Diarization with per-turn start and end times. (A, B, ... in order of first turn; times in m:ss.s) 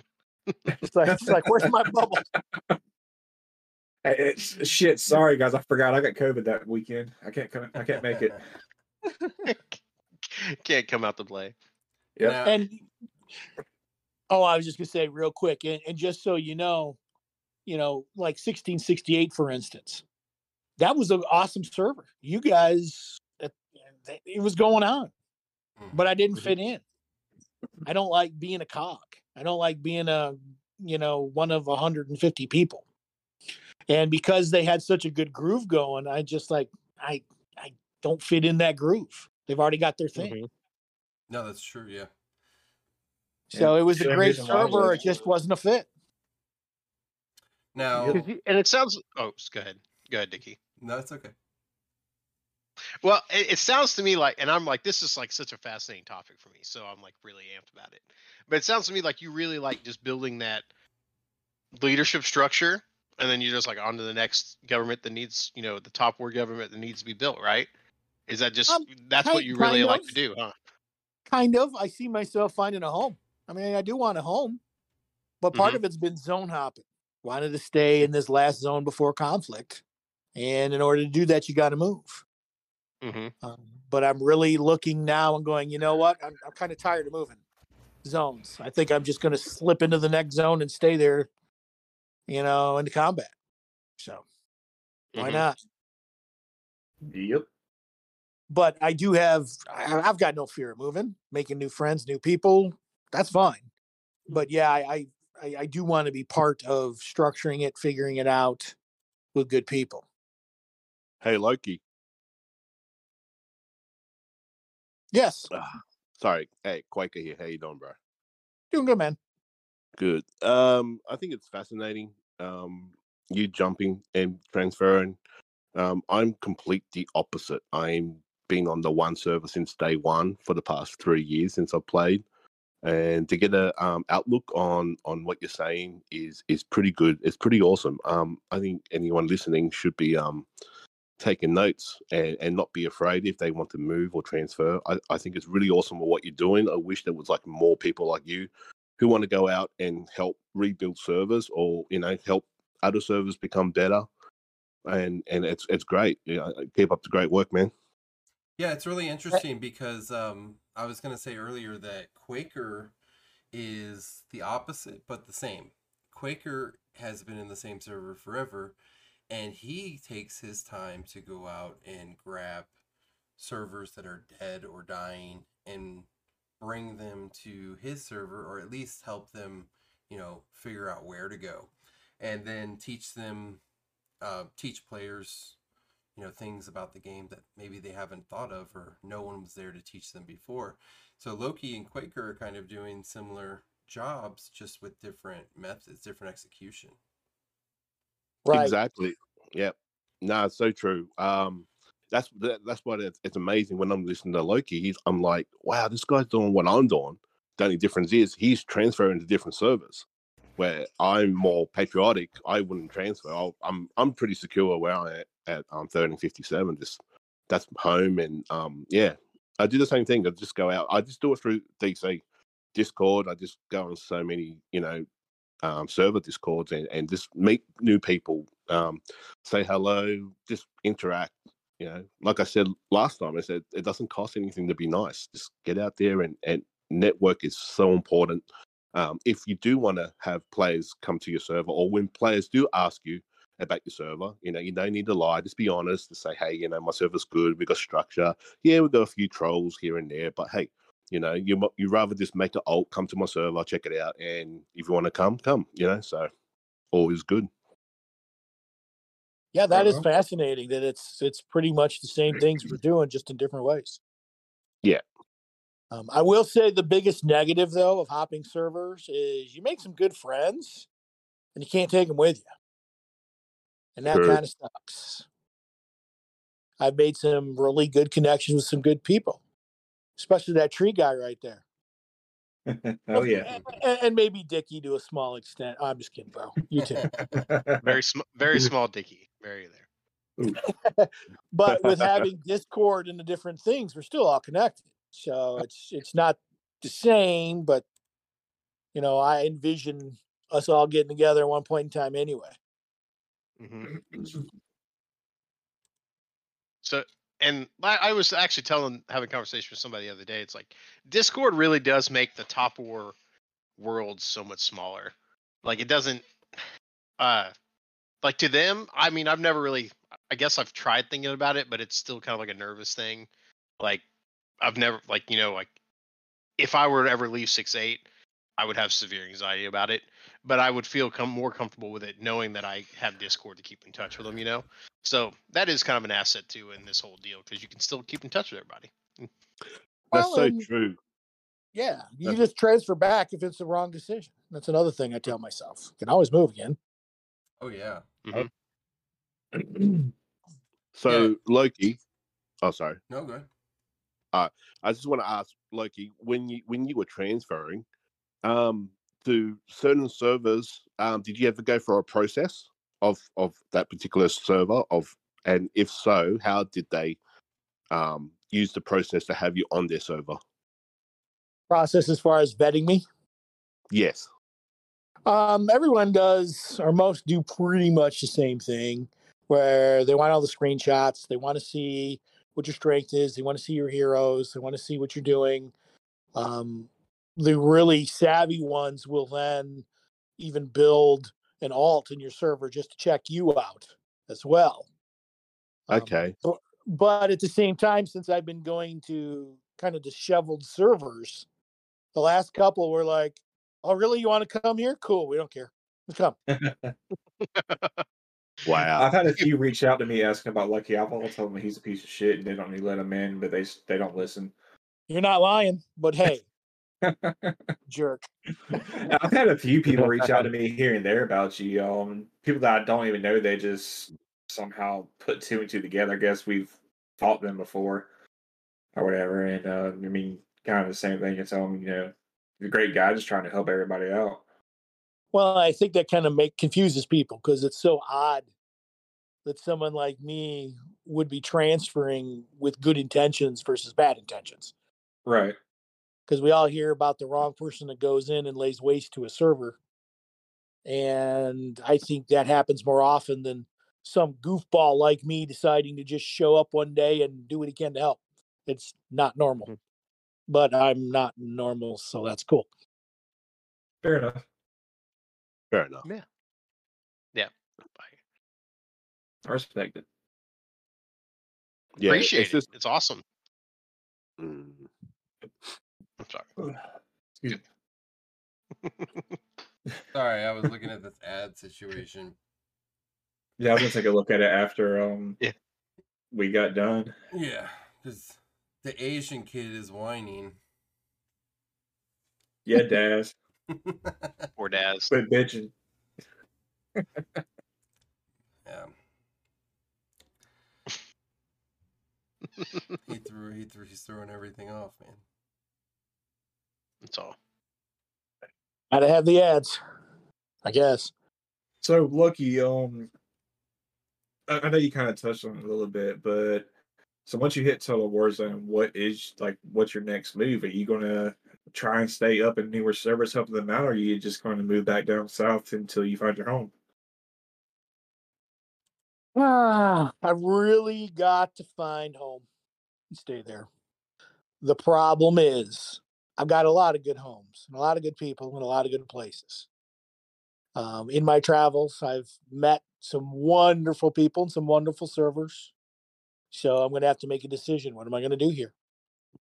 0:00.8-0:02.2 A
0:01.0-0:01.7 B
0:04.0-0:08.4 B
0:09.4-0:11.5 C
0:12.2-0:12.6 D
0:12.4-0:12.8 A
0:14.3-0:17.0 A
0:17.6-0:20.0 A
0:20.8-0:25.1 A
0:25.8-0:26.0 D
0:25.9-0:26.8 A
0:27.8-0:32.8 A
0:33.9-0:40.3 A
0:40.2-0:40.5 C
0:41.3-0:42.1 D
0:43.5-0:45.2 B
0:43.5-0:45.9 A
0:47.7-0:48.2 D
0:48.1-0:50.6 C
0:50.8-0:51.3 D
0:53.0-1:00.6 C
1:01.8-1:07.7 C
1:08.3-1:10.5 C
1:08.7-1:10.2 A
1:11.3-1:14.6 A
1:15.4-1:19.8 A
1:15.5-1:15.8 C
1:20.4-1:22.2 A
1:23.0-1:23.3 C
1:23.4-1:27.4 A
1:28.0-1:31.3 A
1:32.3-1:33.3 A
1:34.0-1:34.2 A
1:35.1-1:35.4 C
1:35.2-1:35.6 A
1:37.1-1:37.5 B
1:38.5-1:43.6 A
1:44.3-1:48.7 A
1:49.3-1:50.0 A
1:51.2-1:51.8 E
1:55.1-1:55.5 A
1:55.5-1:58.0 E
1:58.7-1:59.2 A
2:00.0-2:05.2 E
2:05.7-2:12.2 E
2:12.8-2:20.5 E
2:21.2-2:34.1 E
2:34.8-2:37.7 E
2:38.6-2:42.9 D
2:43.5-2:48.7 D
2:49.3-2:52.7 D
2:53.4-2:56.1 D
2:56.6-3:03.6 D
3:04.2-3:05.6 D
3:06.2-3:17.0 D
3:18.4-3:18.7 A
3:18.5-3:30.0 E
3:30.6-3:42.2 E
3:42.7-3:45.0 E
3:45.6-3:58.4 E
3:58.9-4:16.3 E
4:16.9-4:17.5 E
4:19.5-4:24.0 A
4:19.7-4:20.0 B
4:25.9-4:30.9 A
4:31.5-4:32.5 A
4:34.0-4:35.2 A
4:34.1-4:34.4 E
4:36.8-4:39.4 A
4:40.2-4:41.6 A
4:42.7-4:43.6 B
4:43.1-4:47.1 A
4:47.0-4:47.4 D
4:47.2-4:47.9 B
4:47.8-4:49.8 C
4:50.8-4:57.8 A
4:51.7-4:52.1 E
4:58.9-5:02.6 A
5:03.6-5:04.0 C
5:06.8-5:13.1 C
5:13.8-5:16.2 C
5:17.2-5:17.5 C
5:18.2-5:24.0 C
5:24.6-5:25.7 C
5:26.6-5:28.0 C
5:28.6-5:39.3 C
5:40.1-5:40.6 A
5:40.1-5:41.0 E
5:41.7-5:46.8 A
5:47.6-5:48.2 D
5:48.2-5:48.5 C
5:49.5-5:50.1 B
5:50.9-5:52.0 E
5:51.1-5:51.3 D
5:52.6-5:53.0 E
5:53.1-5:53.5 D
5:54.3-5:57.8 E
5:58.4-6:07.2 E
6:07.9-6:10.4 E
6:11.7-6:13.0 A
6:13.9-6:14.3 E
6:15.2-6:25.7 A
6:26.3-6:29.8 A
6:30.4-6:34.9 A
6:35.9-6:41.4 A
6:35.9-6:36.3 E
6:42.1-6:46.3 A
6:46.5-6:46.9 B
6:47.4-6:48.0 C
6:48.6-6:49.1 E
6:49.0-6:54.5 B
6:55.1-6:56.4 A
6:57.0-6:57.6 B
6:57.9-6:58.3 A
6:58.7-7:08.1 B
7:08.9-7:14.4 B
7:15.3-7:18.5 A
7:19.4-7:24.7 A
7:25.2-7:25.6 B
7:26.3-7:29.8 A
7:30.8-7:39.7 A
7:40.5-7:42.7 A
7:44.0-7:44.4 B
7:45.7-7:46.0 E
7:47.3-7:48.1 C
7:49.4-7:50.0 B
7:52.0-7:52.6 E
7:52.0-7:53.2 C
7:54.4-7:54.9 E
7:56.2-7:56.5 C
7:58.8-7:59.2 C
8:00.1-8:02.4 D
8:03.6-8:05.4 B
8:06.3-8:07.1 B
8:07.3-8:10.6 D
8:12.6-8:13.3 B
8:13.7-8:14.5 D
8:14.6-8:15.1 C
8:15.1-8:15.7 B
8:18.6-8:18.9 D
8:22.6-8:22.9 C
8:23.0-8:25.2 D
8:27.0-8:27.4 C
8:28.9-8:29.8 A
8:30.6-8:31.1 A
8:31.8-8:33.1 B
8:34.5-8:36.7 B
8:37.2-8:46.7 B
8:49.3-8:52.4 A
8:53.1-8:53.7 A
8:54.6-8:59.7 A
9:00.7-9:05.7 A
9:06.5-9:08.7 A